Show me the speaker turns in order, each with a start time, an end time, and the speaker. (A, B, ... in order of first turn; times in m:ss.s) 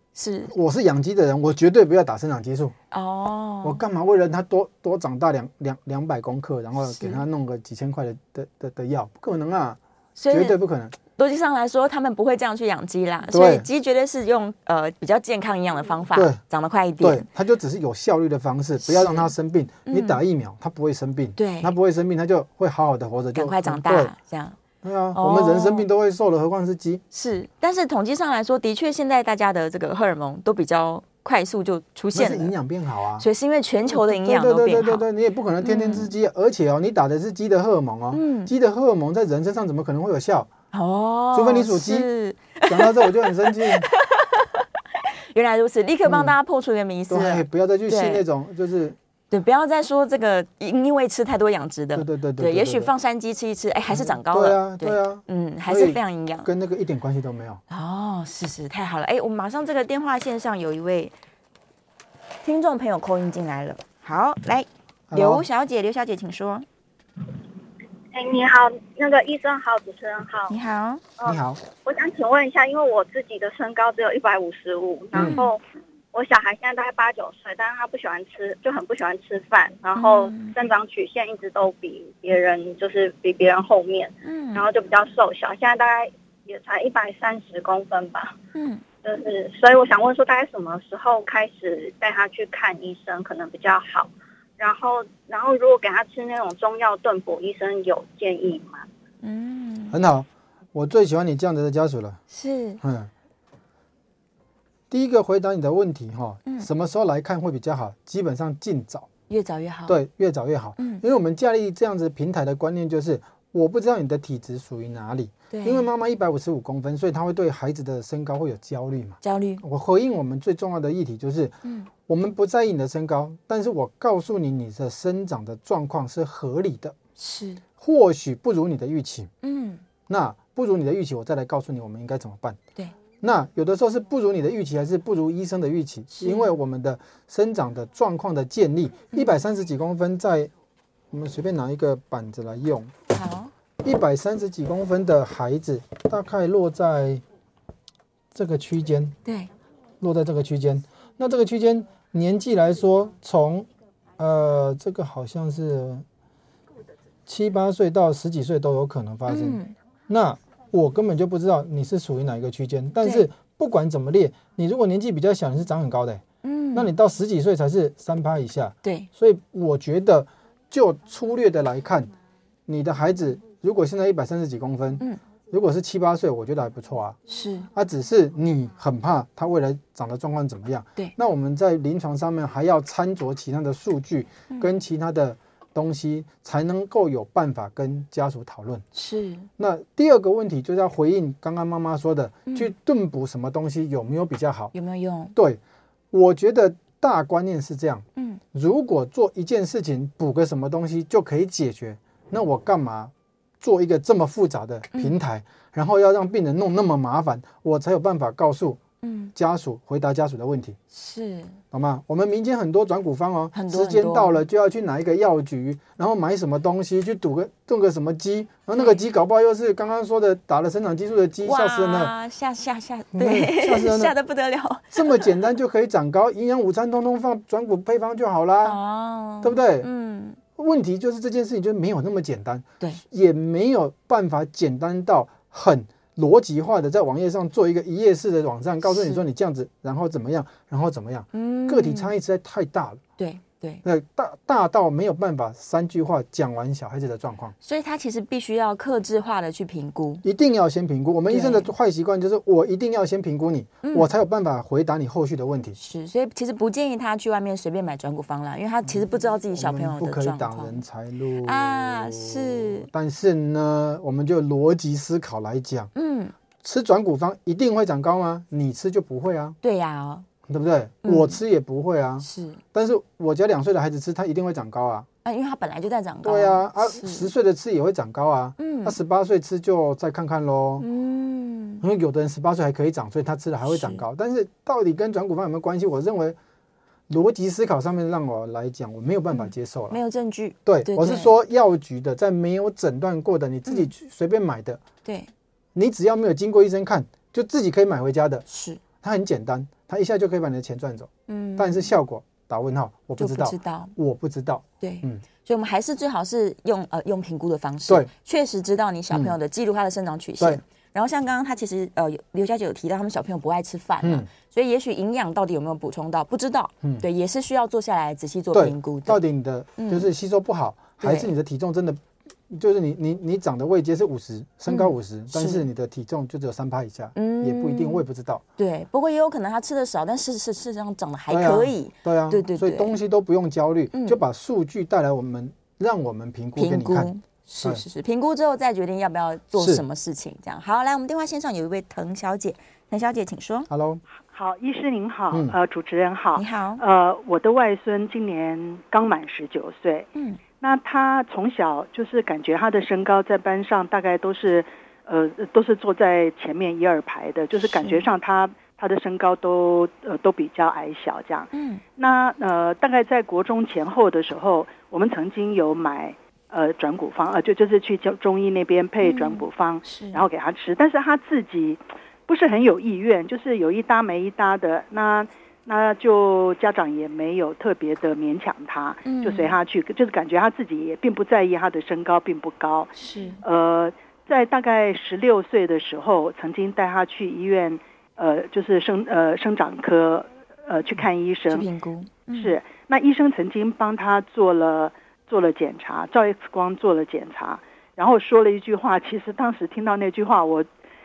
0:00.1-0:00.5 A
0:00.5-0:02.7 B
0:02.9-0:03.8 A
0:03.6-0:09.8 B
0:06.8-0:07.2 A
0:10.2-0:10.6 A
0:10.3-0:11.0 B
0:11.2-0:17.2 A
0:13.3-0:13.7 B
0:16.1-0:16.4 B
0:17.0-0:24.1 B
0:18.8-0:19.3 A
0:19.8-0:20.2 A
0:21.4-0:21.7 A
0:23.3-0:24.6 A
0:24.8-0:27.0 B
0:25.1-0:25.8 A
0:27.1-0:32.5 A
0:32.1-0:33.3 B
0:33.2-0:35.0 A
0:33.9-0:40.5 B
0:35.6-0:36.1 A
0:38.1-0:38.5 A
0:40.7-0:44.6 A
0:41.3-0:42.1 B
0:42.7-0:43.9 B
0:45.3-0:48.2 A
0:46.0-0:46.3 B
0:47.1-0:49.0 B
0:49.3-0:56.5 A
0:51.9-0:52.9 B
0:53.9-0:57.6 B
0:57.7-1:01.1 A
1:02.4-1:06.6 A
1:05.1-1:05.4 B
1:08.1-1:10.5 C
1:10.5-1:11.0 A
1:11.2-1:15.6 C
1:11.2-1:11.6 B
1:15.1-1:15.4 B
1:15.1-1:15.5 A
1:16.1-1:28.4 C
1:19.9-1:20.6 A
1:24.2-1:24.6 A
1:28.6-1:28.8 A
1:29.0-1:38.9 C
1:39.2-1:40.0 A
1:39.9-1:42.2 B
1:42.3-1:42.8 A
1:42.8-1:43.1 B
1:44.9-1:49.1 B
1:49.3-1:50.0 A
1:49.9-2:07.0 B
1:50.8-1:51.0 A
1:55.5-1:55.9 A
1:59.2-1:59.6 A
2:01.6-2:01.9 A
2:07.2-2:07.6 A
2:07.8-2:09.3 B
2:09.4-2:09.8 A
2:10.1-2:12.6 B
2:13.2-2:20.5 B
2:16.1-2:16.6 A
2:21.1-2:22.9 B
2:23.1-2:23.5 A
2:23.8-2:27.2 B
2:28.3-2:29.1 B
2:29.2-2:29.5 A
2:30.0-2:33.7 B
2:34.2-2:36.0 B
2:37.3-2:52.1 B
2:39.3-2:39.7 A
2:43.0-2:43.3 A
2:46.4-2:46.9 A
2:48.8-2:49.1 A
2:52.7-2:57.2 B
2:57.3-2:57.7 A
2:57.7-3:08.8 B
3:08.9-3:09.5 A
3:09.6-3:14.7 B
3:14.7-3:15.3 A
3:15.3-3:15.6 B
3:16.1-3:28.8 B
3:29.0-3:29.3 A
3:29.3-3:30.8 B
3:30.9-3:31.6 A
3:31.7-3:42.1 B
3:33.5-3:34.4 A
3:38.7-3:39.0 A
3:41.4-3:45.3 A
3:43.1-3:44.1 B
3:44.9-3:48.8 B
3:48.6-3:50.4 A
3:49.4-3:49.9 B
3:50.6-4:03.0 B
3:58.8-3:59.2 A
4:01.3-4:02.1 A
4:03.2-4:03.8 A
4:03.8-4:07.5 B
4:07.6-4:10.2 A
4:10.2-4:15.8 B
4:11.3-4:11.7 A
4:13.8-4:14.1 A
4:15.8-4:20.8 A
4:18.8-4:25.9 B
4:21.4-4:22.9 A
4:25.9-4:26.3 A
4:26.6-4:29.6 B
4:29.6-4:30.2 A
4:30.5-4:35.1 B
4:31.0-4:31.4 A
4:32.2-4:32.6 A
4:35.2-4:37.3 A
4:36.2-4:40.8 B
4:38.6-4:39.0 A
4:40.8-4:41.8 A
4:41.8-4:46.4 B
4:43.6-4:44.0 A
4:47.1-4:50.0 B
4:49.3-4:51.3 A
4:50.6-4:54.8 B
4:53.6-4:53.9 A
4:55.0-4:55.3 A
4:55.7-4:58.4 B
4:58.5-4:58.8 A
4:59.0-5:05.2 B
5:01.3-5:01.9 A
5:03.2-5:03.9 A
5:04.8-5:19.2 A
5:14.0-5:14.3 B
5:18.5-5:28.4 B
5:19.8-5:20.1 A
5:21.0-5:21.3 A
5:24.7-5:25.6 A
5:27.1-5:28.0 A
5:28.6-5:32.9 A
5:31.3-5:37.1 B
5:33.9-5:34.2 A
5:36.6-5:43.7 A
5:39.5-5:39.8 B
5:43.7-5:44.0 B
5:44.3-5:50.1 D
5:45.3-5:45.6 B
5:46.3-5:46.8 A
5:50.1-5:50.4 A
5:50.6-6:31.7 D
5:57.6-5:58.0 A
6:01.5-6:01.8 A
6:09.0-6:10.2 A
6:19.0-6:19.5 A
6:23.0-6:23.4 A
6:31.5-6:32.6 A
6:32.3-6:40.7 D